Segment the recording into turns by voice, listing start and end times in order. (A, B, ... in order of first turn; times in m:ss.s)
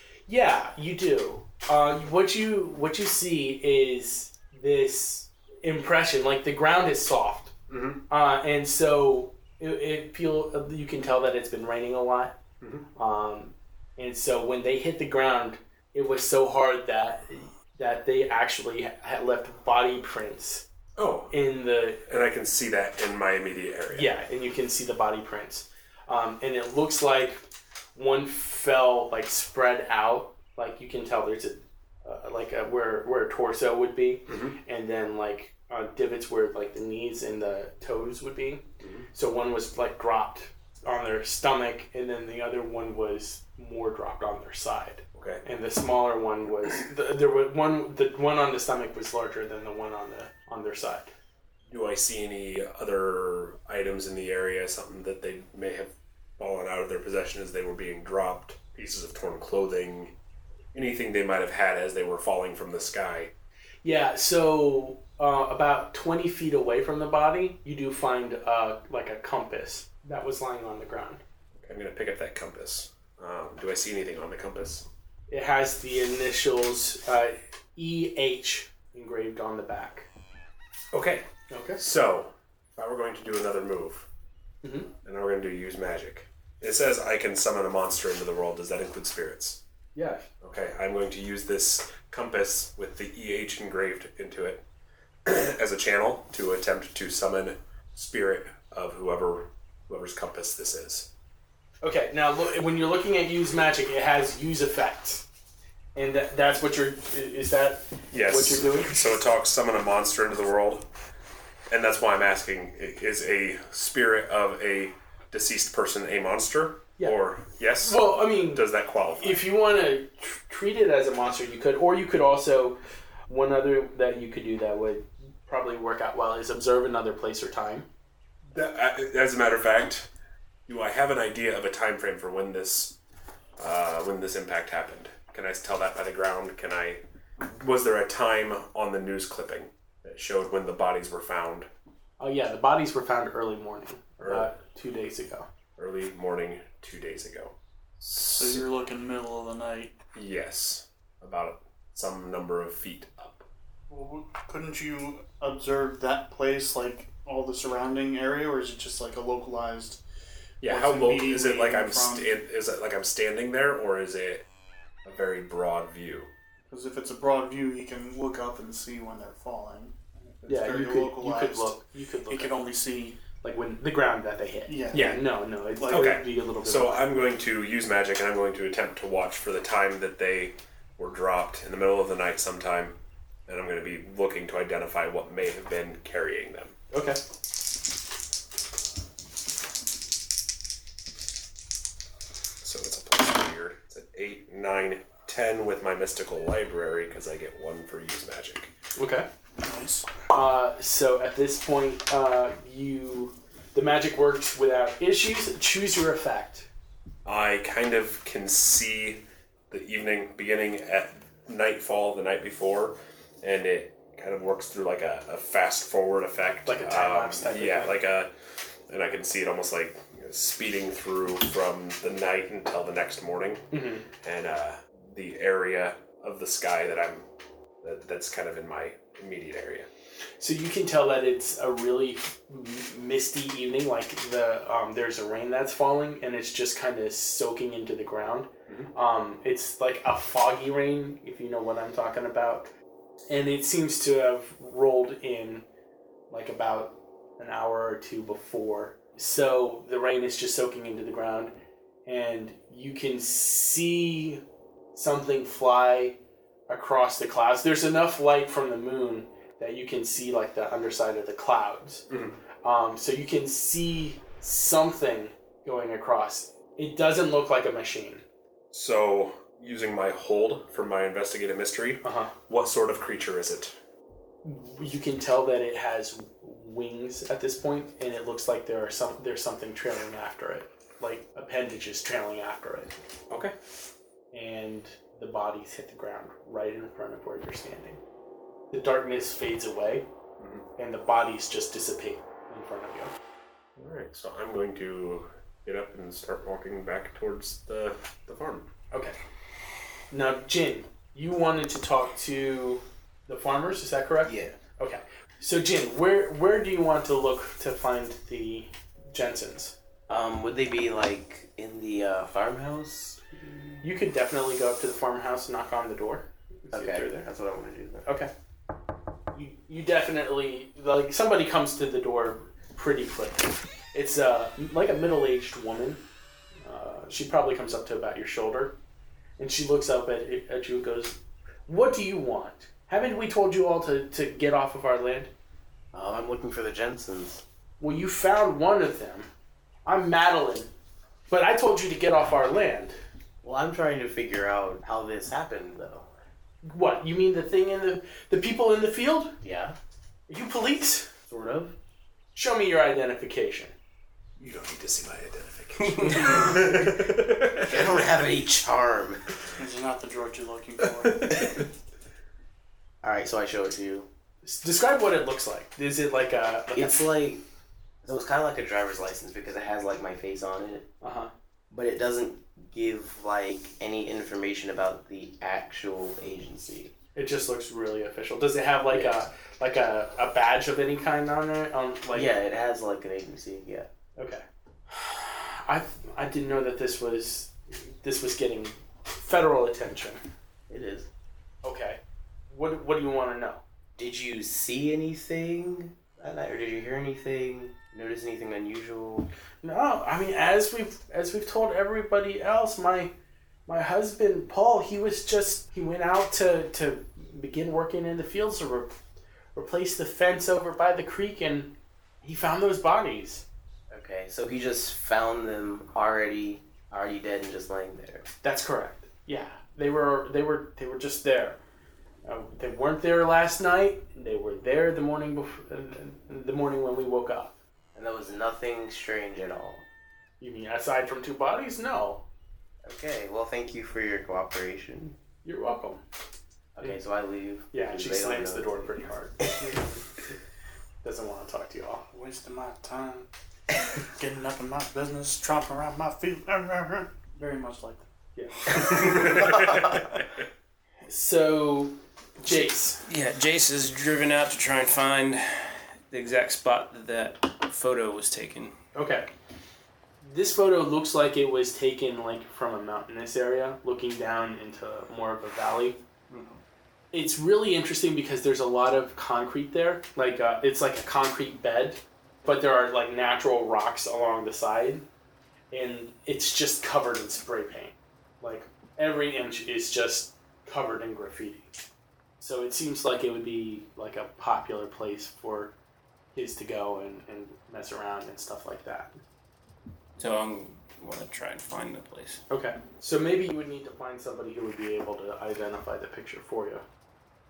0:00.3-0:07.5 A
0:07.7-0:08.0 B
0:08.1-0:12.4 A
0:12.6-0:12.9 B
0:13.0-0:20.6 A
0:21.0-0:21.4 B
0:21.3-0:22.0 A
0:22.0-0:24.1 B
0:23.9-0:27.4 A
0:28.0-0:51.1 A
0:34.3-0:34.6 B
0:38.8-0:39.1 B
0:45.2-0:45.4 B
0:51.7-1:00.2 B
1:00.7-1:03.3 B
1:03.8-1:11.2 A
1:11.6-1:14.9 B
1:15.3-1:20.1 A
1:20.9-1:21.3 B
1:21.5-1:21.8 A
1:21.8-1:24.1 B
1:24.6-1:24.9 A
1:25.0-1:29.6 B
1:30.0-1:30.3 A
1:30.4-1:34.6 B
1:35.2-1:41.1 B
1:41.8-1:45.2 A
1:46.0-1:49.2 A
1:48.1-1:50.9 B
1:51.7-1:59.4 B
1:57.8-2:07.9 A
2:08.5-2:10.1 B
2:10.7-2:13.0 B
2:13.6-2:21.7 B
2:22.2-2:25.5 A
2:24.2-2:24.5 B
2:25.8-2:28.6 B
2:28.4-2:30.0 C
2:30.2-2:33.5 B
2:33.9-2:40.0 C
2:40.6-2:44.5 B
2:40.6-2:42.3 C
2:45.0-2:46.3 B
2:46.7-2:51.8 C
2:50.5-2:52.8 A
2:52.3-2:53.2 C
2:53.4-2:57.1 A
2:54.7-2:56.2 C
2:55.9-3:06.8 B
3:06.9-3:07.2 A
3:12.6-3:18.7 B
3:19.0-3:19.3 A
3:19.6-3:20.1 C
3:20.3-3:26.7 A
3:27.2-3:38.3 B
3:36.7-3:38.0 A
3:38.9-3:43.7 B
3:43.7-3:44.1 A
3:44.2-3:47.3 B
3:47.8-3:49.9 B
3:50.4-4:02.7 A
4:03.3-4:05.6 A
4:06.3-4:11.6 A
4:12.1-4:14.4 A
4:14.9-4:16.2 A
4:16.7-4:22.1 A
4:22.1-4:22.4 B
4:22.6-4:28.2 A
4:28.7-4:33.8 B
4:32.0-4:32.3 A
4:34.4-4:43.0 A
4:44.3-4:48.0 A
4:48.7-4:50.1 A
4:50.4-4:50.7 B
4:50.8-4:53.1 A
4:53.8-4:58.7 B
4:58.9-4:59.2 A
5:00.1-5:09.8 A
5:04.2-5:04.6 D
5:10.1-5:13.8 D
5:13.8-5:17.3 A
5:16.7-5:18.1 D
5:18.0-5:18.3 A
5:19.3-5:26.0 A
5:26.6-5:28.8 A
5:29.4-5:35.3 A
5:35.9-5:37.4 D
5:37.8-5:39.3 A
5:39.9-5:40.7 A
5:41.3-5:43.0 A
5:43.4-5:46.1 D
5:46.6-5:49.4 A
5:49.4-5:49.8 D
5:50.3-5:51.1 A
5:51.3-5:51.8 D
5:52.4-5:53.8 A
5:54.4-5:57.9 B
5:57.5-5:59.3 D
5:59.6-6:01.4 C
6:03.0-6:04.1 D
6:04.4-6:07.0 A
6:06.7-6:07.4 D
6:08.0-6:10.9 D
6:11.0-6:11.3 A
6:11.7-6:17.0 D
6:17.2-6:22.3 A
6:18.9-6:19.2 D
6:22.1-6:23.9 D
6:24.2-6:30.2 A
6:30.7-6:31.1 D
6:31.6-6:33.6 A
6:34.0-6:39.3 D
6:39.6-6:43.1 A
6:43.7-6:49.0 A
6:49.6-6:53.4 A
6:53.9-6:58.3 D
6:58.4-7:01.6 A
7:02.2-7:07.6 A
7:08.0-7:09.8 D
7:10.4-7:12.2 A
7:12.8-7:15.2 D
7:15.4-7:16.0 A
7:16.8-7:18.9 D
7:17.7-7:20.0 A
7:21.0-7:22.1 A
7:22.1-7:28.1 C
7:28.4-7:29.3 A
7:29.0-7:30.0 B
7:31.1-7:33.0 A
7:33.1-7:38.8 E
7:39.0-7:39.3 A
7:40.2-7:46.0 A
7:46.3-7:46.6 E
7:47.1-7:55.0 A
7:55.7-8:01.7 A
8:02.4-8:05.7 A
8:06.3-8:09.2 A
8:10.2-8:12.4 E
8:12.5-8:16.8 A